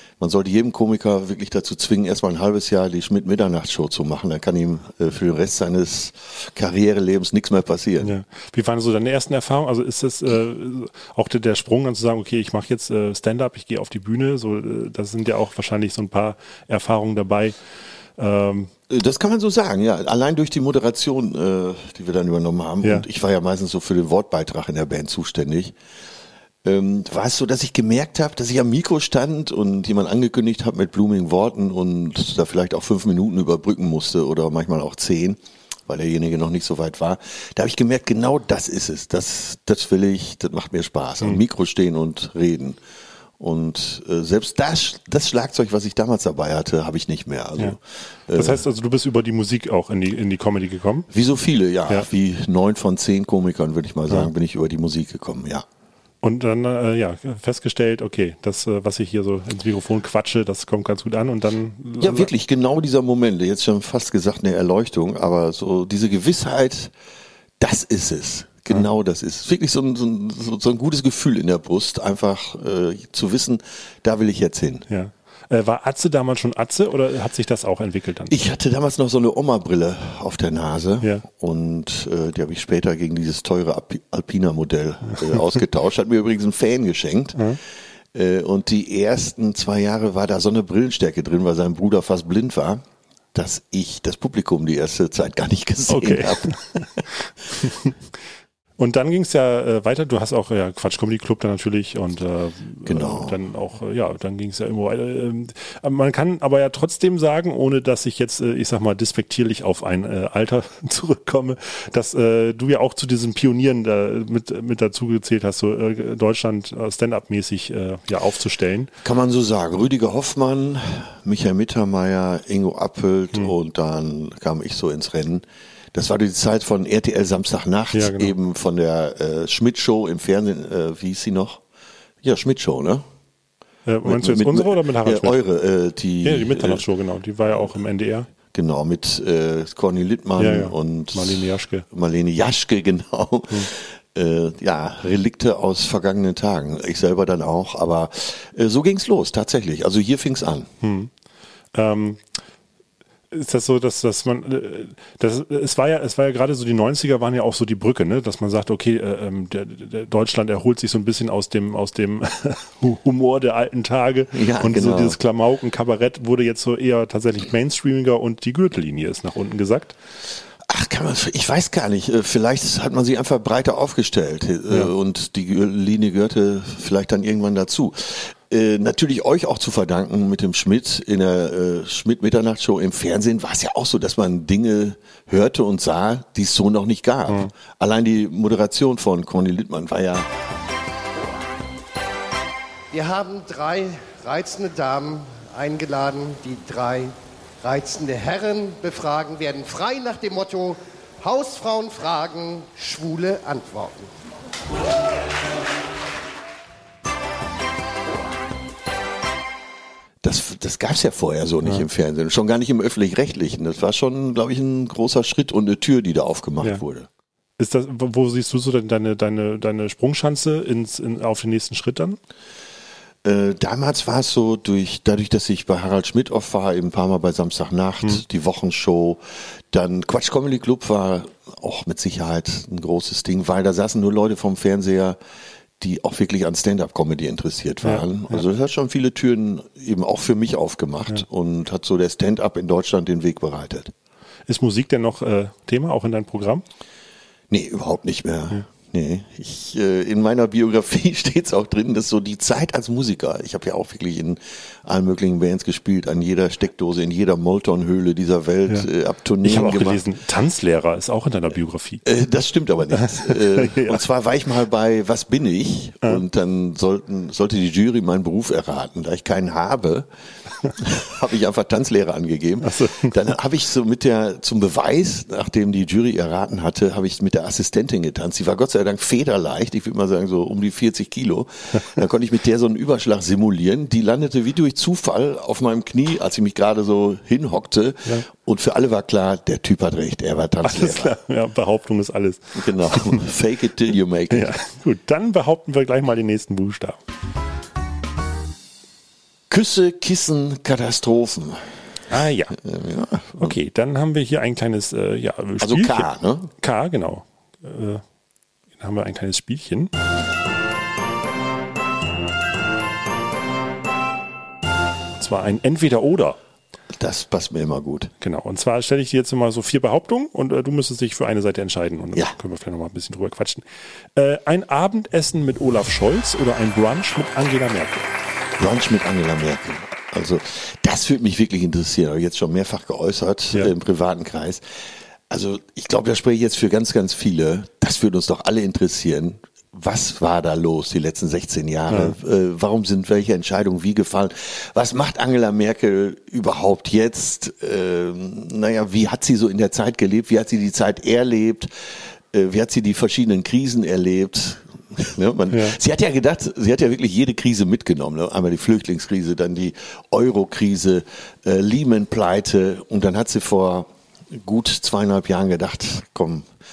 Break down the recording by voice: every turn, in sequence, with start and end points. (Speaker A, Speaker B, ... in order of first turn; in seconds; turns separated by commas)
Speaker A: 0.2-8.1, Speaker B: 8.0-17.6, Speaker B: 18.2-18.7, Speaker A: 18.9-25.8, Speaker A: 26.6-42.8, Speaker A: 43.4-48.6, Speaker B: 48.3-51.1, Speaker A: 51.1-55.6, Speaker B: 56.2-62.3, Speaker A: 62.0-66.9, Speaker A: 67.6-74.9, Speaker B: 74.9-78.3, Speaker A: 78.3-87.4, Speaker A: 88.1-92.8, Speaker A: 93.3-97.0, Speaker B: 95.9-96.9, Speaker B: 97.5-97.9, Speaker B: 98.8-118.9, Speaker A: 102.8-103.4, Speaker A: 119.0-131.6, Speaker B: 127.9-128.3, Speaker A: 132.2-133.0, Speaker B: 133.8-135.4, Speaker A: 134.0-136.8, Speaker B: 136.2-138.3, Speaker A: 138.5-150.7, Speaker B: 140.4-141.8, Speaker B: 150.8-151.1, Speaker B: 151.7-152.2, Speaker B: 153.3-169.9, Speaker A: 164.3-165.2, Speaker A: 170.7-190.3, Speaker C: 192.9-204.1, Speaker A: 210.2-217.1, Speaker B: 217.6-222.2, Speaker A: 223.2-235.2, Speaker A: 235.8-243.9, Speaker B: 237.8-238.4, Speaker B: 244.5-246.6, Speaker A: 247.5-260.0, Speaker B: 259.4-262.0, Speaker A: 262.0-270.1, Speaker B: 262.9-264.0, Speaker A: 270.8-291.2, Speaker B: 272.6-273.1, Speaker B: 290.6-293.2, Speaker A: 292.6-294.6, Speaker B: 294.3-297.0, Speaker A: 299.5-301.7, Speaker B: 302.1-302.6, Speaker A: 302.5-303.6, Speaker B: 303.4-308.0, Speaker A: 305.6-306.5, Speaker B: 308.8-309.9, Speaker B: 315.2-316.4, Speaker A: 316.9-318.1, Speaker B: 318.2-328.1, Speaker A: 328.6-334.6, Speaker A: 335.3-366.5, Speaker B: 341.9-342.1, Speaker B: 355.5-355.8